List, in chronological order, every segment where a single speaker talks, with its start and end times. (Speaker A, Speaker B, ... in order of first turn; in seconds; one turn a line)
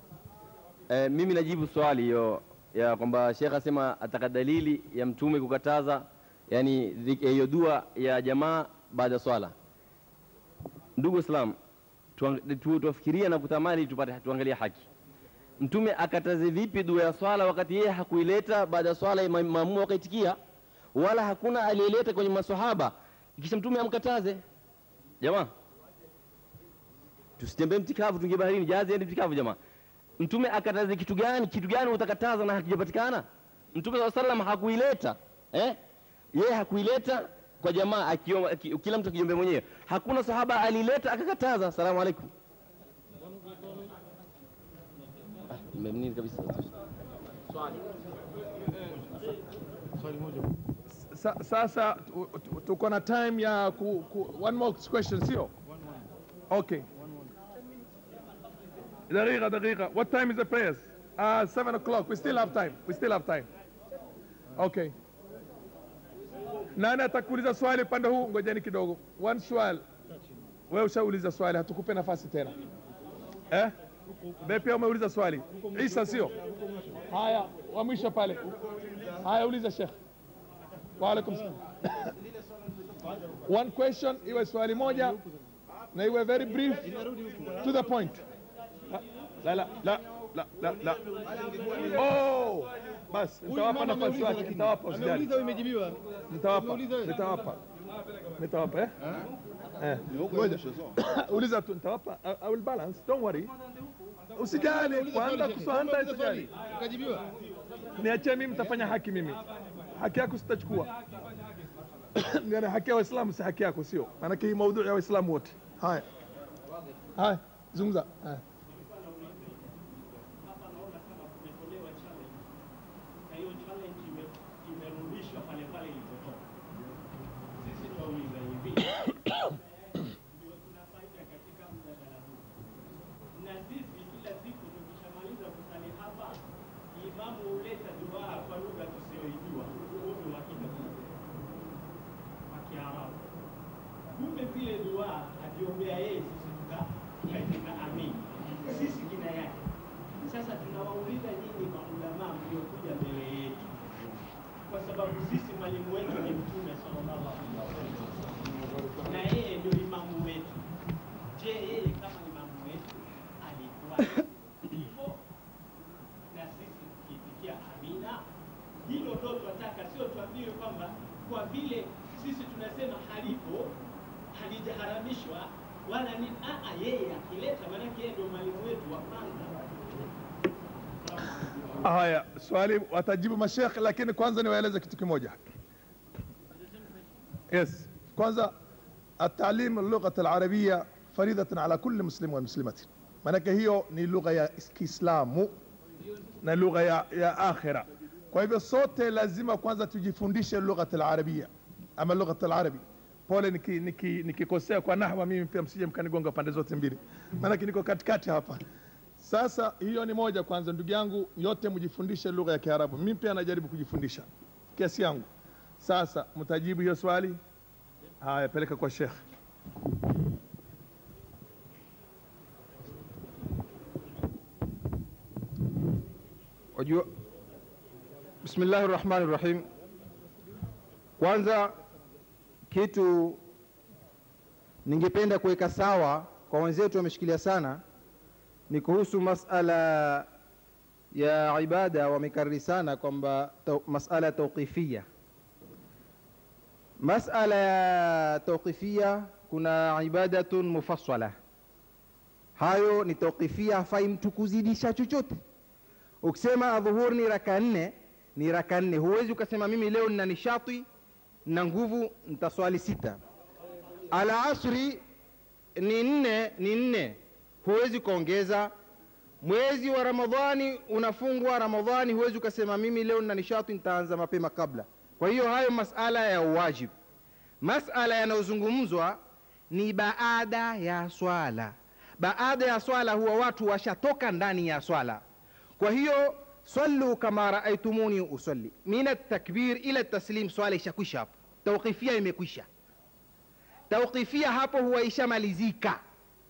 Speaker A: 0.9-9.5
Speaker A: 11.0-11.6
Speaker A: 12.2-14.8
Speaker A: 15.6-20.4
Speaker A: 20.9-24.4
Speaker A: 25.2-25.5
Speaker A: 27.4-29.6
Speaker A: 30.2-35.8
Speaker A: 36.3-42.3
Speaker A: 45.5-46.7
Speaker B: 51.1-55.5
Speaker B: 56.5-56.9
Speaker B: 59.1-63.5
Speaker B: 64.6-64.9
Speaker B: 66.8-69.8
Speaker B: 70.7-72.5
Speaker B: 74.4-76.4
Speaker B: 77.1-78.5
Speaker B: 79.2-79.9
Speaker B: 81.0-82.1
Speaker B: 83.5-85.2
Speaker B: 85.9-87.0
Speaker C: 86.9-87.5
Speaker B: 87.6-88.2
Speaker B: 88.9-91.0
Speaker D: 91.1-92.0
Speaker B: 91.9-95.3
Speaker C: 93.5-97.1
Speaker B: 96.3-97.6
Speaker B: 98.4-99.0
Speaker B: 99.8-103.5
Speaker C: 100.2-100.6
Speaker B: 104.4-106.5
Speaker C: 104.5-107.3
Speaker B: 108.0-109.4
Speaker B: 110.0-110.9
Speaker B: 112.2-116.1
Speaker B: 117.2-118.4
Speaker D: 118.7-122.6
Speaker D: 123.3-126.4
Speaker D: 127.6-132.6
Speaker D: 133.4-141.1
Speaker D: 142.5-143.3
Speaker D: 144.1-149.6
Speaker D: 150.2-153.8
Speaker D: 154.7-158.2
Speaker D: 159.0-160.7
Speaker D: 161.4-165.2
Speaker D: 166.3-168.2
Speaker D: 168.9-173.7
Speaker D: 174.3-179.7
Speaker B: 181.8-185.4
Speaker B: 187.5-188.5
Speaker B: 189.2-195.5
Speaker B: 196.4-208.6
Speaker B: 209.2-215.3
Speaker B: 215.8-217.4
Speaker B: 218.2-219.2
Speaker E: 226.8-227.1
Speaker E: 228.4-229.7
Speaker E: 231.2-231.7
Speaker E: 232.7-233.4
Speaker E: 234.9-237.8
Speaker E: 238.7-240.3
Speaker E: 241.2-245.1
Speaker E: 247.0-251.3
Speaker E: 252.6-255.4
Speaker E: 256.2-260.9
Speaker E: 261.5-263.2
Speaker E: 264.1-265.0
Speaker E: 265.8-268.7
Speaker E: 269.4-276.9
Speaker E: 277.6-279.2
Speaker E: 279.7-285.2
Speaker E: 285.8-292.7
Speaker E: 293.9-296.0